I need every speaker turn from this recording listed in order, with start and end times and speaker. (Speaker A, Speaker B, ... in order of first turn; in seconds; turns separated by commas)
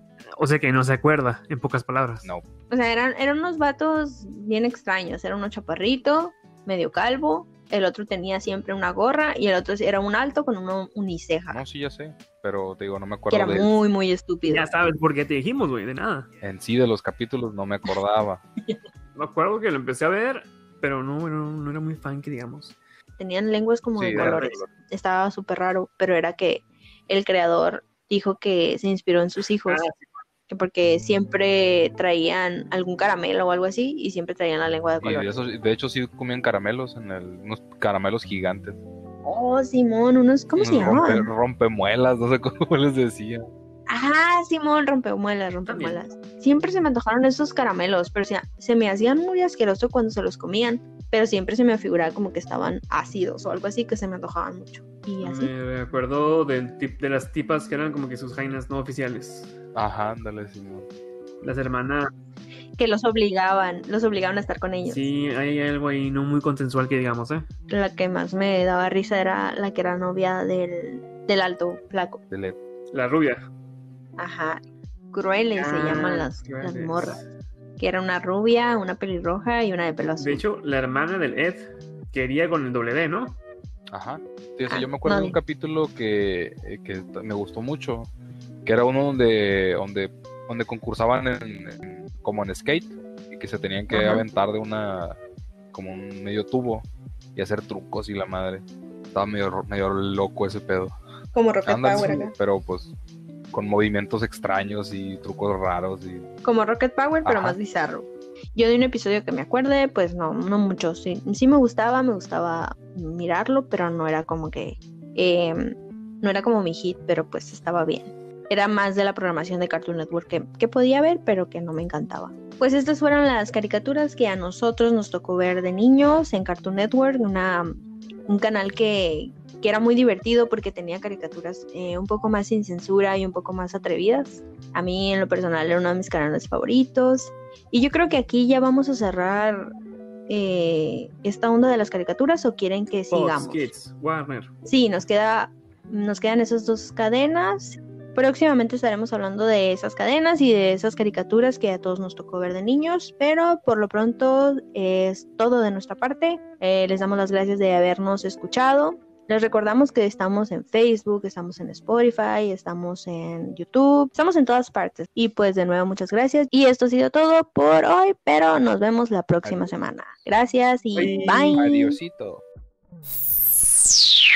Speaker A: 0.4-2.3, Speaker B: 2.7-11.6, Speaker C: 11.5-13.7, Speaker B: 13.3-14.7, Speaker A: 14.5-16.3, Speaker C: 16.4-18.4, Speaker A: 19.1-22.8, Speaker B: 23.2-29.8, Speaker C: 23.9-24.5, Speaker A: 24.1-24.6, Speaker A: 29.6-30.2, Speaker B: 30.5-35.4, Speaker C: 35.0-38.8, Speaker B: 39.2-41.3, Speaker C: 40.6-43.5, Speaker B: 43.9-55.5, Speaker A: 45.6-46.0, Speaker A: 55.2-59.5, Speaker C: 59.7-60.9, Speaker A: 61.4-62.1, Speaker B: 62.8-65.1, Speaker A: 64.8-67.5, Speaker B: 67.7-72.2, Speaker C: 72.3-72.6, Speaker A: 72.9-73.5, Speaker B: 74.2-74.6, Speaker B: 75.1-77.2, Speaker A: 75.5-77.2, Speaker B: 77.8-80.4, Speaker A: 80.2-83.4, Speaker C: 83.9-88.1, Speaker B: 84.7-85.3, Speaker C: 88.6-95.2, Speaker B: 93.9-94.2, Speaker C: 95.7-101.0, Speaker B: 101.3-102.3, Speaker C: 101.6-102.9, Speaker C: 103.5-106.3, Speaker B: 106.4-127.7, Speaker C: 107.2-107.6, Speaker B: 128.3-139.7, Speaker B: 140.3-143.7, Speaker A: 143.1-144.5, Speaker B: 144.7-172.0, Speaker C: 169.4-169.7, Speaker A: 170.9-171.6, Speaker C: 171.6-172.4